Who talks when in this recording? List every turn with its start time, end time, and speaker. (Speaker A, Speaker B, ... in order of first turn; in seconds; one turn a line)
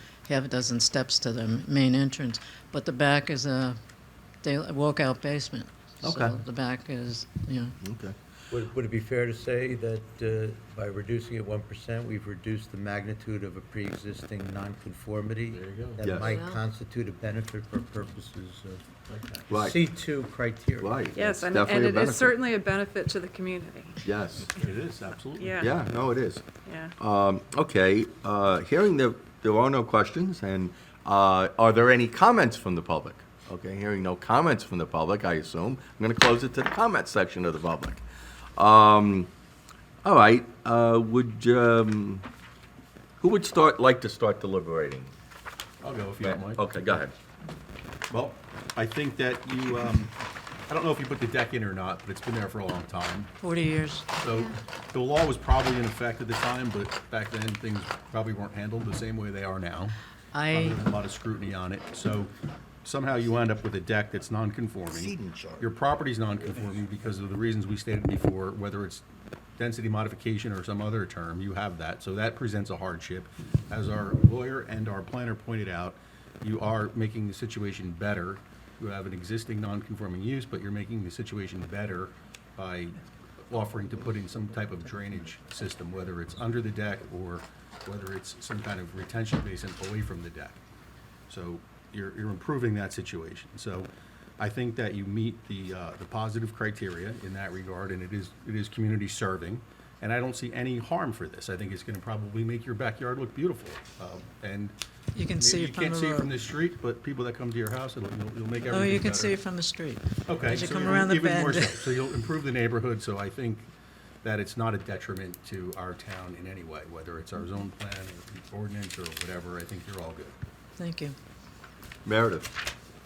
Speaker A: 0.3-3.8
Speaker A: 4.4-7.8
Speaker B: 6.0-6.3
Speaker B: 7.8-8.1
Speaker C: 8.5-18.8
Speaker D: 15.5-16.0
Speaker B: 16.0-16.4
Speaker A: 16.2-16.6
Speaker D: 19.1-19.5
Speaker B: 19.5-19.8
Speaker C: 19.5-21.0
Speaker B: 20.8-22.4
Speaker E: 21.1-24.0
Speaker B: 24.0-24.5
Speaker D: 24.4-25.7
Speaker E: 25.4-25.7
Speaker B: 25.6-26.4
Speaker E: 26.6-26.9
Speaker B: 27.0-38.0
Speaker B: 38.6-39.3
Speaker B: 40.0-42.2
Speaker B: 43.2-45.1
Speaker D: 45.8-47.0
Speaker B: 46.2-47.1
Speaker D: 48.1-50.1
Speaker D: 50.7-53.3
Speaker A: 53.4-54.0
Speaker D: 54.1-59.9
Speaker A: 60.3-60.8
Speaker D: 60.5-62.3
Speaker D: 62.8-69.0
Speaker B: 64.9-65.7
Speaker D: 69.6-83.0
Speaker D: 83.5-90.6
Speaker D: 91.3-104.8
Speaker A: 105.1-106.3
Speaker D: 105.3-109.4
Speaker A: 108.7-111.9
Speaker D: 110.3-113.7
Speaker D: 114.2-120.3
Speaker A: 120.8-121.1
Speaker B: 122.0-122.5